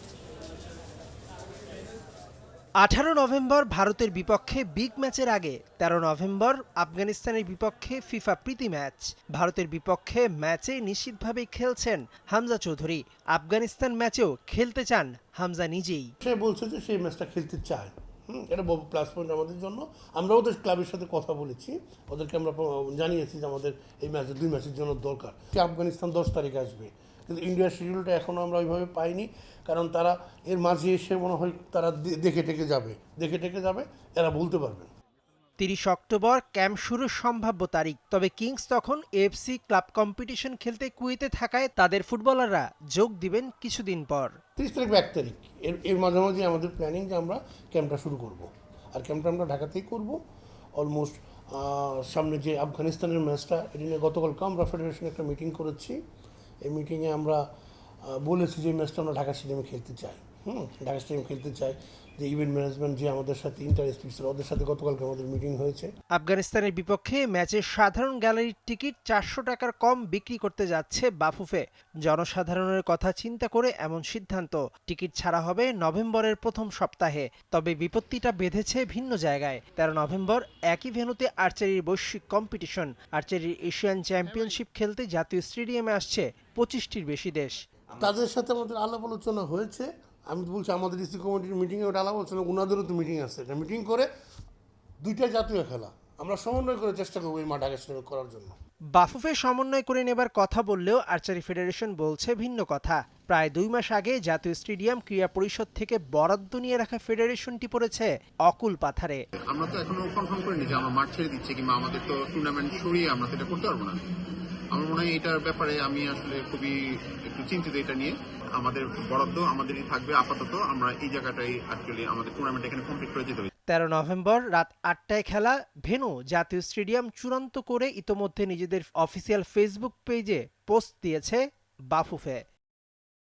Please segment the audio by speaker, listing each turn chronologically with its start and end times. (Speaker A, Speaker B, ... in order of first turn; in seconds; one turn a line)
Speaker A: 2.8-16.1
Speaker B: 16.2-34.9
Speaker A: 35.6-44.4
Speaker B: 44.6-50.2
Speaker B: 50.8-56.0
Speaker B: 56.6-57.4
Speaker B: 58.0-65.9
Speaker A: 66.1-87.6
Speaker B: 88.0-94.1
Speaker B: 95.0-98.5
Speaker A: 98.9-109.2
Speaker C: 109.5-114.0
Speaker C: 114.7-123.5
Speaker A: 123.7-132.4